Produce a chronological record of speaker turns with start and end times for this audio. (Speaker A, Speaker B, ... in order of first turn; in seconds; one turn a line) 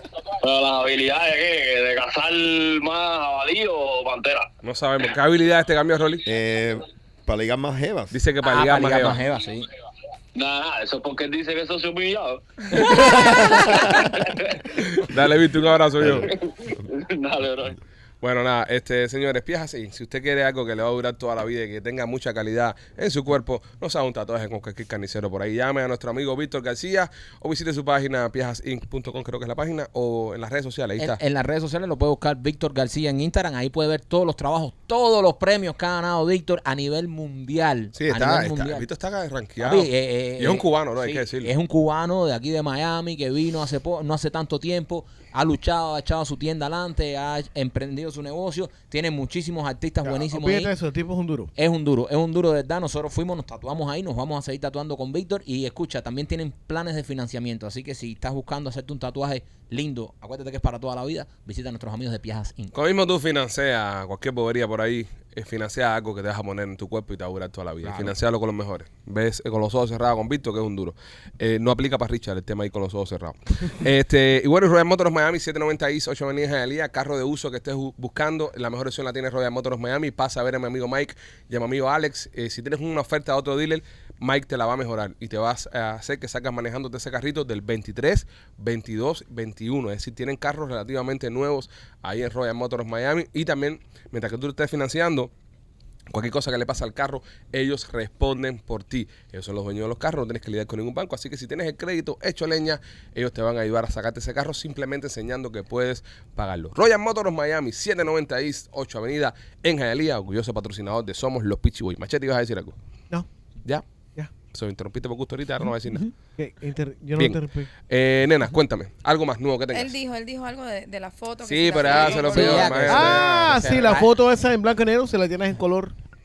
Speaker A: 0.4-4.5
Speaker B: 4.6-6.2
Speaker C: 6.3-8.2
Speaker B: 8.1-9.2
Speaker D: 8.4-9.7
Speaker A: 10.3-14.6
Speaker B: 14.8-16.3
Speaker C: 16.0-16.3
Speaker A: 16.3-17.8
Speaker B: 18.2-31.2
Speaker D: 31.0-38.9
Speaker B: 38.0-41.5
Speaker D: 39.6-50.7
Speaker E: 50.0-51.5
Speaker D: 51.6-62.7
Speaker B: 62.7-95.3
Speaker D: 67.8-68.2
Speaker B: 96.1-112.8
Speaker B: 114.5-116.1
Speaker E: 116.4-117.7
Speaker B: 117.2-119.9
Speaker F: 119.7-122.8
Speaker B: 121.5-123.7
Speaker D: 122.2-124.1
Speaker E: 122.8-125.9